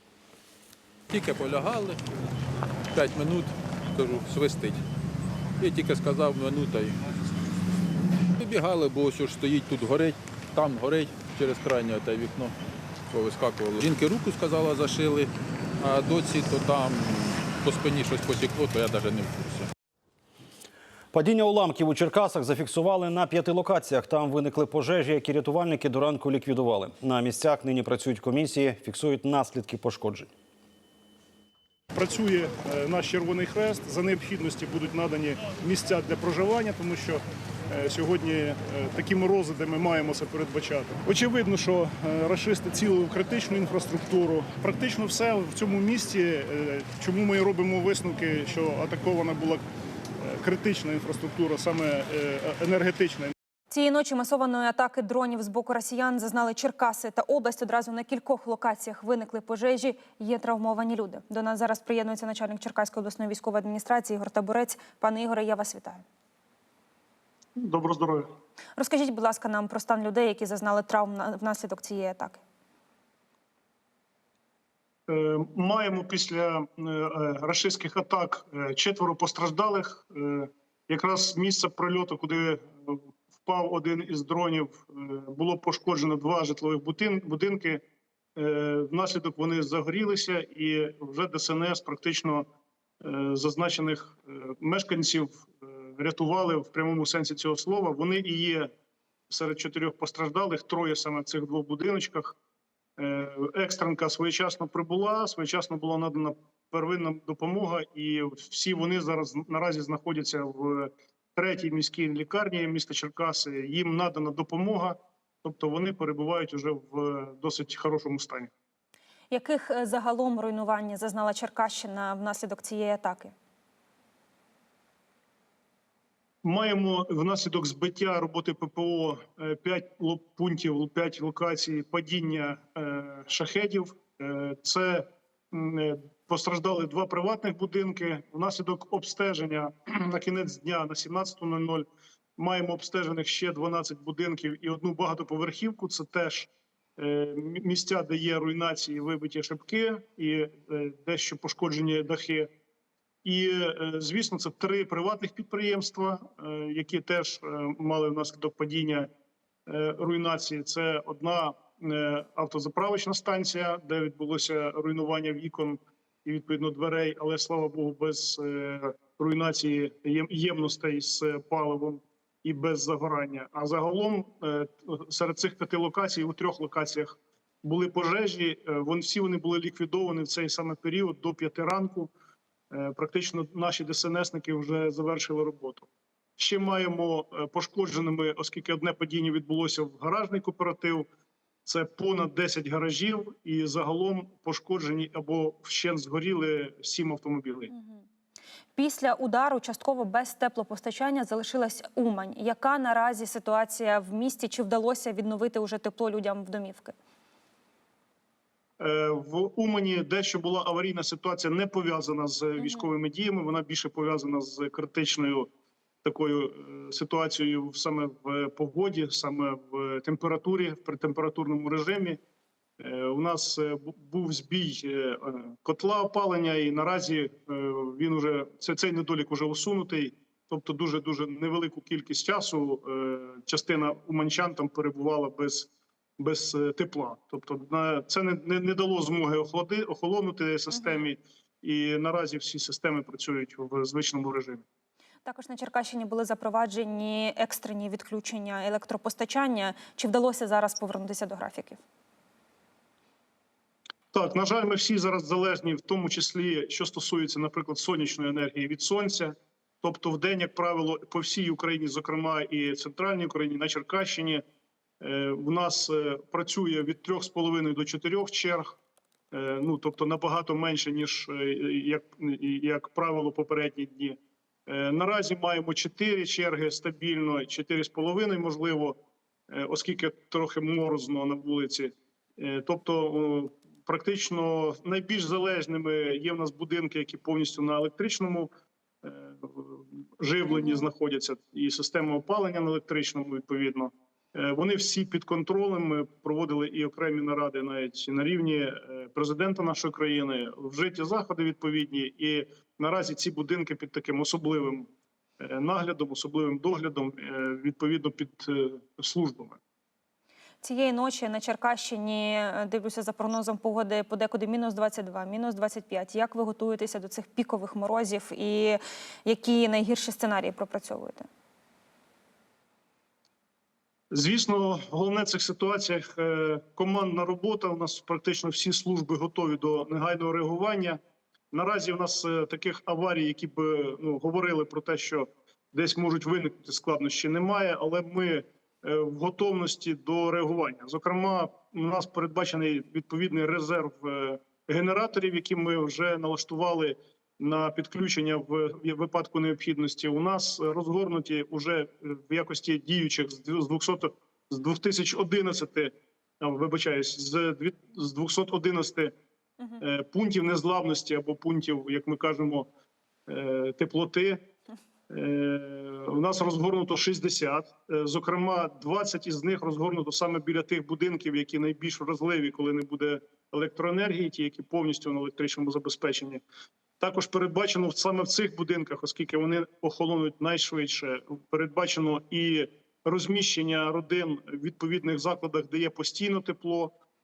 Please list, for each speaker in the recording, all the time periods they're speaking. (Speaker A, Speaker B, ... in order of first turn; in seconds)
Speaker A: 1.1-2.0, 2.9-4.8, 5.6-7.0, 8.4-12.5, 13.1-19.7
Speaker B: 21.1-30.3
Speaker C: 31.9-49.6, 50.2-53.3, 67.5-68.3, 75.1-87.8, 88.3-92.5, 93.0-98.7, 99.3-102.3, 103.0-118.5, 126.4-152.5, 153.2-159.1, 159.7-182.1, 182.7-191.1, 191.7-197.7, 208.8-215.5, 216.0-222.2, 222.8-244.6, 254.1-264.4, 265.0-268.8, 269.3-288.5, 289.0-304.9, 305.4-309.6, 324.1-331.0, 331.5-359.1, 359.8-362.7, 363.3-364.5, 365.1-376.4, 377.0-386.9
Speaker D: 53.7-66.0, 68.8-72.4, 119.3-123.3, 197.7-198.0, 198.8-206.9, 212.6-212.9, 240.7-241.0, 245.2-251.8, 290.5-290.8, 310.6-321.3